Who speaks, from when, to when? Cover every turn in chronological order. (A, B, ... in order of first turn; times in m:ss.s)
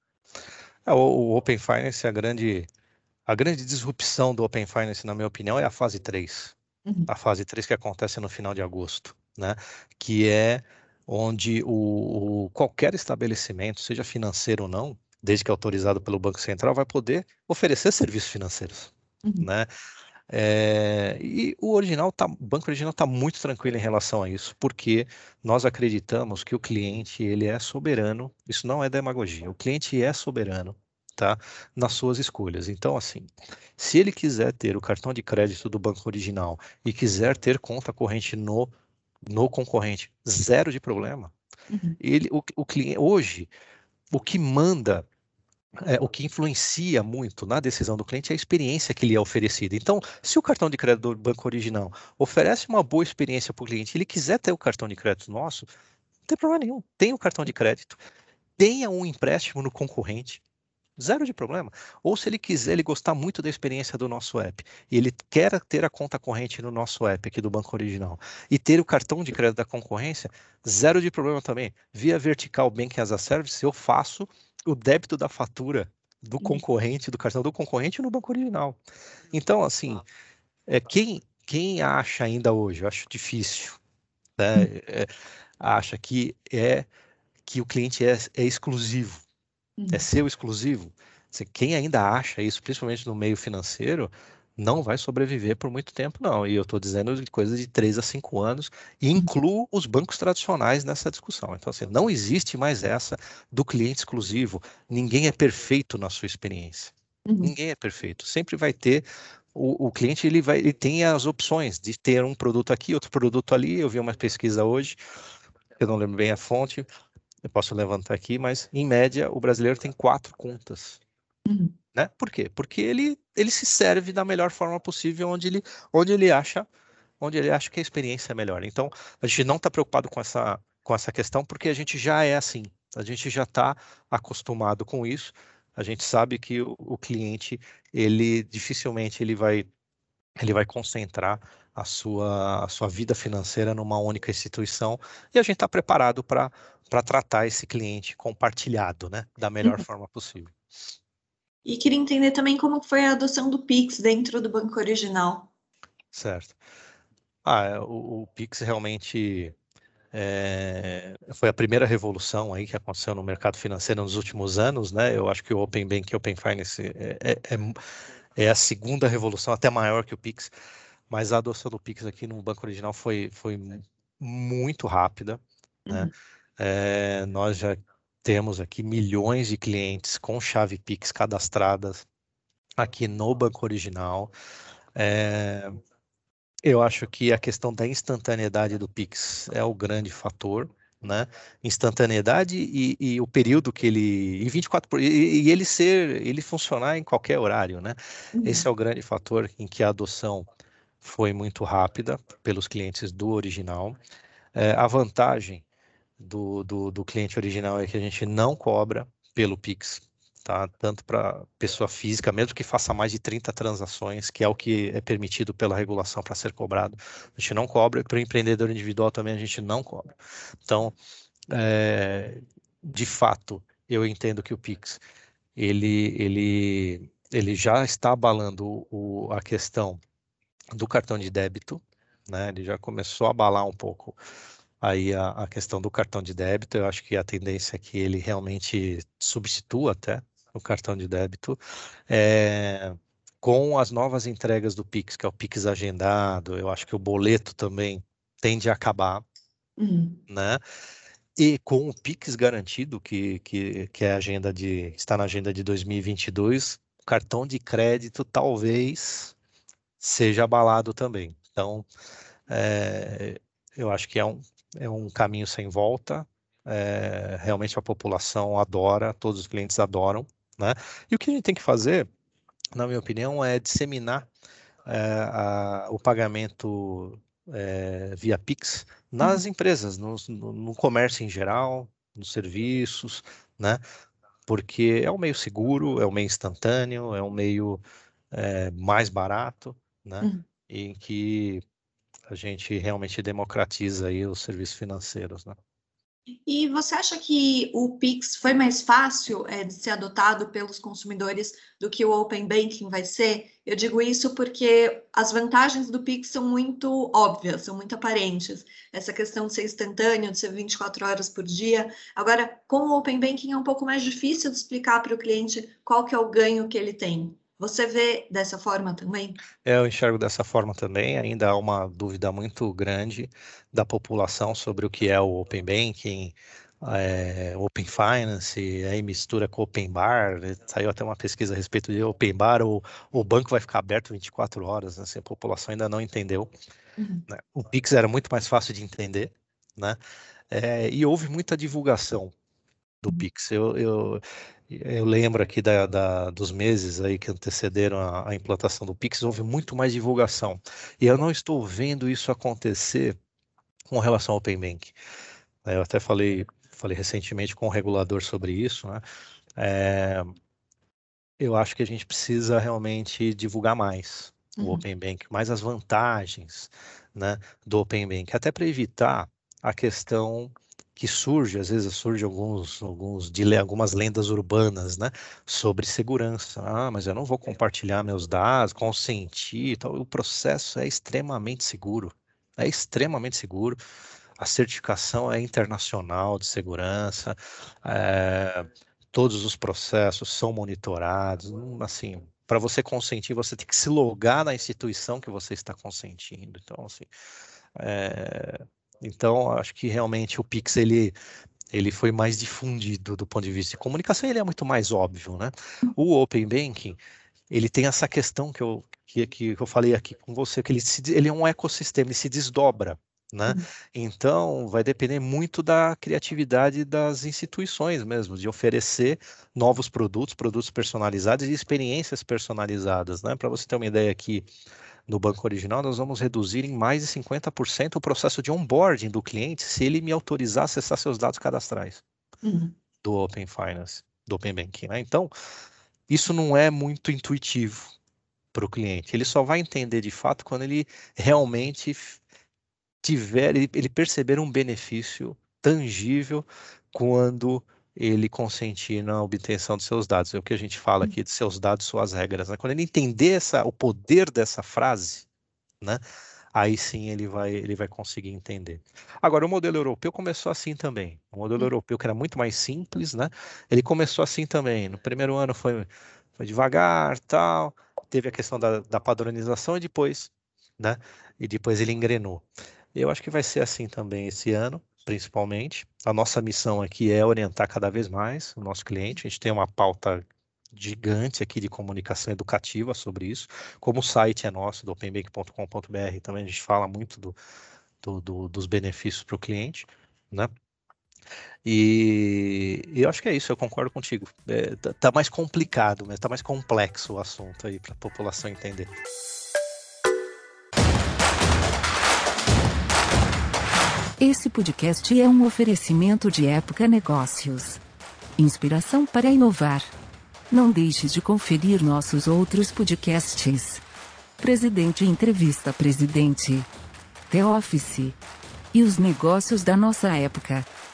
0:00.9-0:02.7 A
0:03.3-0:06.5 A
0:07.1-0:19.7 A
0:20.3-0:38.7 A
0:39.3-0:41.3 A
0:41.7-0:42.0 B
0:42.0-0:43.5 A
0:44.1-0:45.1 A
0:45.8-0:55.7 A
0:56.3-0:58.0 A
0:58.6-1:00.4 A
1:01.0-1:18.8 A
1:19.3-1:20.0 A
1:20.7-1:23.8 A
1:24.4-1:26.9 A
1:27.5-1:29.2 A
1:29.8-1:30.0 B
1:29.9-1:55.0 A
1:47.3-1:47.5 B
1:55.8-1:56.9 A
1:57.5-2:01.0 A
2:01.5-2:01.8 B
2:01.9-2:06.7 A
2:07.2-2:19.7 A
2:20.4-2:30.5 A
2:31.7-2:35.5 B
2:36.1-2:36.6 A
2:37.4-2:39.6 A
2:40.1-2:47.8 A
2:48.4-2:50.5 A
2:51.1-3:02.0 A
3:02.8-3:04.3 A
3:05.0-3:05.8 A
3:06.6-3:20.5 A
3:18.4-3:18.7 B
3:21.0-3:24.0 A
3:24.5-3:25.6 A
3:26.2-3:41.0 A
3:41.5-3:45.0 A
3:45.6-3:50.0 A
3:50.7-3:54.2 A
3:54.8-4:09.2 A
4:09.8-4:10.2 B
4:10.3-4:10.6 A
4:11.4-4:19.3 A
4:20.0-4:21.9 A
4:22.5-4:32.1 A
4:32.8-4:34.3 A
4:34.8-4:43.8 A
4:44.5-4:47.8 A
4:48.3-4:51.6 A
4:52.3-4:55.6 A
4:56.5-5:19.4 B
5:19.6-5:36.5 A
5:37.0-5:37.3 B
5:37.3-5:40.0 A
5:40.5-5:42.3 A
5:43.0-5:53.2 A
5:53.9-5:55.0 A
5:55.6-5:59.0 A
5:59.6-6:00.3 A
6:01.4-6:23.8 A
6:04.6-6:04.8 B
6:24.4-6:37.1 A
6:37.8-6:41.2 A
6:41.7-6:47.0 A
6:47.5-7:04.5 A
7:05.1-7:12.0 A
7:12.4-7:12.8 B
7:13.0-7:15.3 A
7:16.1-7:17.9 A
7:18.5-7:22.2 A
7:23.0-7:35.3 A
7:36.5-7:45.9 A
7:46.4-8:07.4 A
8:08.0-8:10.5 A
8:11.6-8:18.9 A
8:24.2-8:27.8 C
8:28.4-8:29.9 C
8:30.5-8:33.8 C
8:34.4-8:36.7 C
8:37.3-8:38.2 C
8:38.7-8:40.7 C